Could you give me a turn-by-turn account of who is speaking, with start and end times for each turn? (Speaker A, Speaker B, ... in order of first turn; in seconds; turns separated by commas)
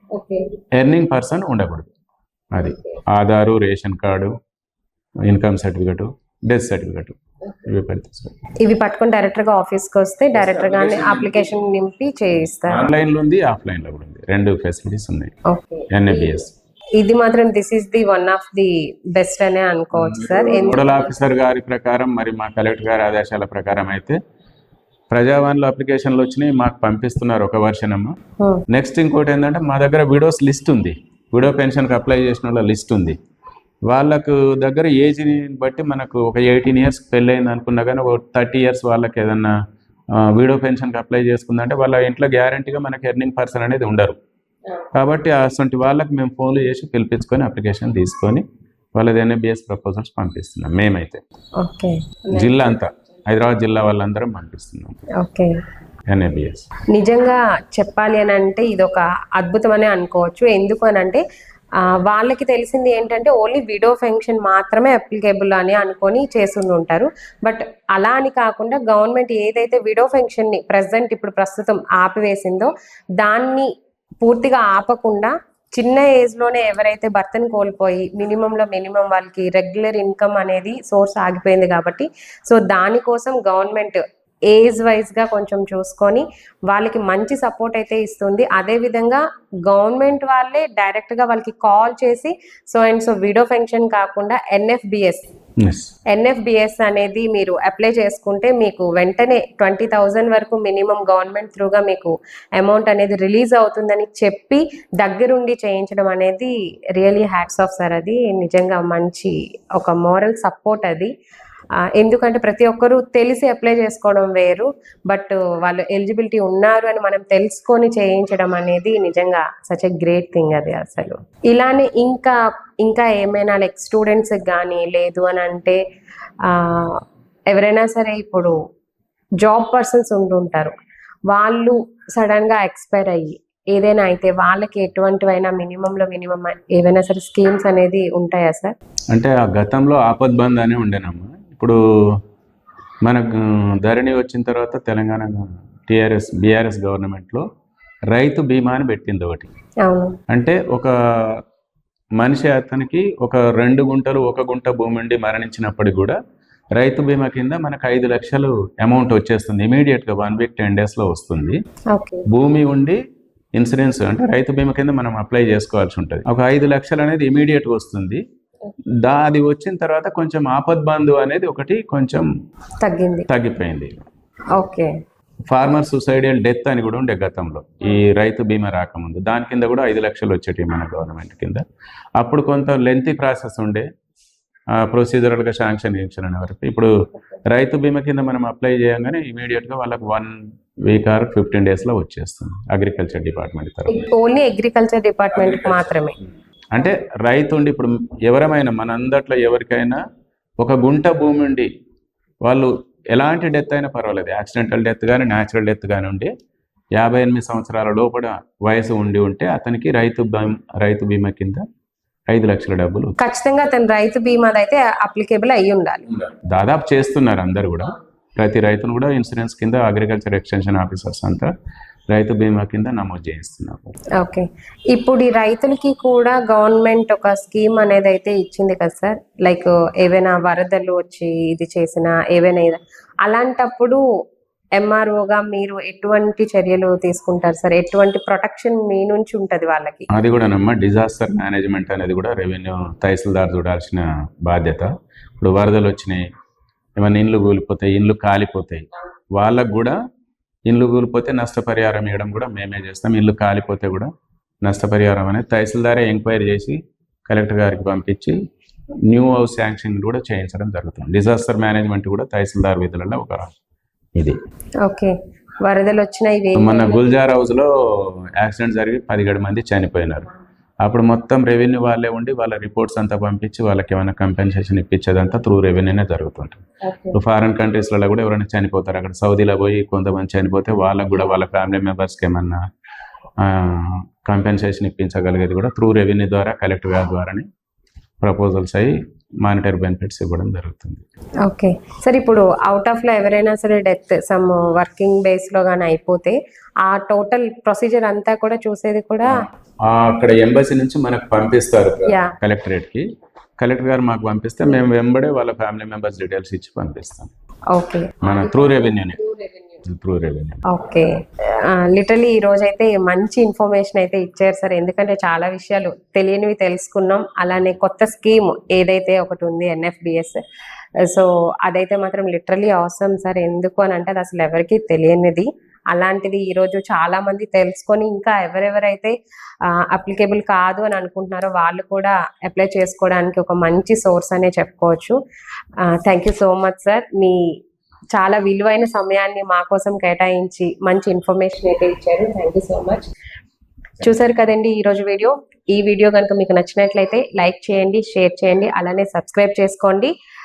Speaker A: 0.1-0.5, Speaker B: 0.7-1.9, Speaker B: 2.5-4.3, Speaker A: 2.6-3.0, Speaker B: 5.2-8.3, Speaker A: 8.6-12.9, Speaker B: 10.3-11.5, Speaker B: 12.7-15.3, Speaker A: 15.5-21.1, Speaker B: 15.9-16.5, Speaker B: 19.9-24.2, Speaker B: 25.1-28.1, Speaker B: 28.7-33.2, Speaker B: 33.9-39.5, Speaker B: 40.1-44.2, Speaker B: 44.9-48.4, Speaker B: 48.9-51.2, Speaker A: 51.6-52.5, Speaker B: 52.3-55.0, Speaker A: 55.2-55.5, Speaker B: 56.1-56.7, Speaker A: 56.9-61.2, Speaker A: 61.9-73.7, Speaker A: 74.2-95.2, Speaker B: 95.6-95.9, Speaker A: 96.1-111.1, Speaker A: 111.9-125.8, Speaker A: 126.4-128.5, Speaker A: 129.4-130.7, Speaker A: 131.3-138.7, Speaker B: 139.1-142.2, Speaker B: 143.0-147.4, Speaker B: 148.1-149.5, Speaker A: 149.8-150.2, Speaker B: 150.3-151.4, Speaker B: 152.2-156.2, Speaker B: 156.8-161.6, Speaker A: 161.9-162.2, Speaker B: 162.3-163.0, Speaker B: 163.5-168.2, Speaker B: 169.0-172.3, Speaker A: 172.8-173.3, Speaker B: 173.3-174.0, Speaker A: 174.6-174.9, Speaker B: 175.5-181.6, Speaker B: 182.2-183.8, Speaker B: 184.7-186.9, Speaker B: 187.5-194.1, Speaker A: 193.9-196.2, Speaker B: 195.3-195.9, Speaker B: 196.7-200.0, Speaker B: 200.6-201.7, Speaker B: 202.4-206.3, Speaker B: 206.9-211.6, Speaker B: 212.3-213.2, Speaker A: 213.2-216.1, Speaker B: 216.3-221.5, Speaker B: 222.1-223.9, Speaker A: 224.2-234.0, Speaker A: 234.8-240.1, Speaker B: 240.1-246.2, Speaker B: 247.0-250.0, Speaker B: 250.7-254.1, Speaker B: 254.6-258.4, Speaker B: 259.1-263.5, Speaker A: 264.8-267.0, Speaker B: 266.6-270.3, Speaker B: 270.8-276.6, Speaker A: 276.8-277.1, Speaker B: 277.1-282.6, Speaker B: 283.4-287.4, Speaker B: 288.2-291.0, Speaker A: 291.4-299.4, Speaker B: 299.4-303.1, Speaker A: 302.1-302.3, Speaker B: 303.6-307.3, Speaker A: 307.7-309.6, Speaker B: 308.2-309.2, Speaker B: 309.8-310.6, Speaker A: 310.7-320.4, Speaker A: 321.0-329.1, Speaker A: 329.7-335.1, Speaker A: 335.8-337.6, Speaker A: 338.1-343.1, Speaker A: 344.0-350.1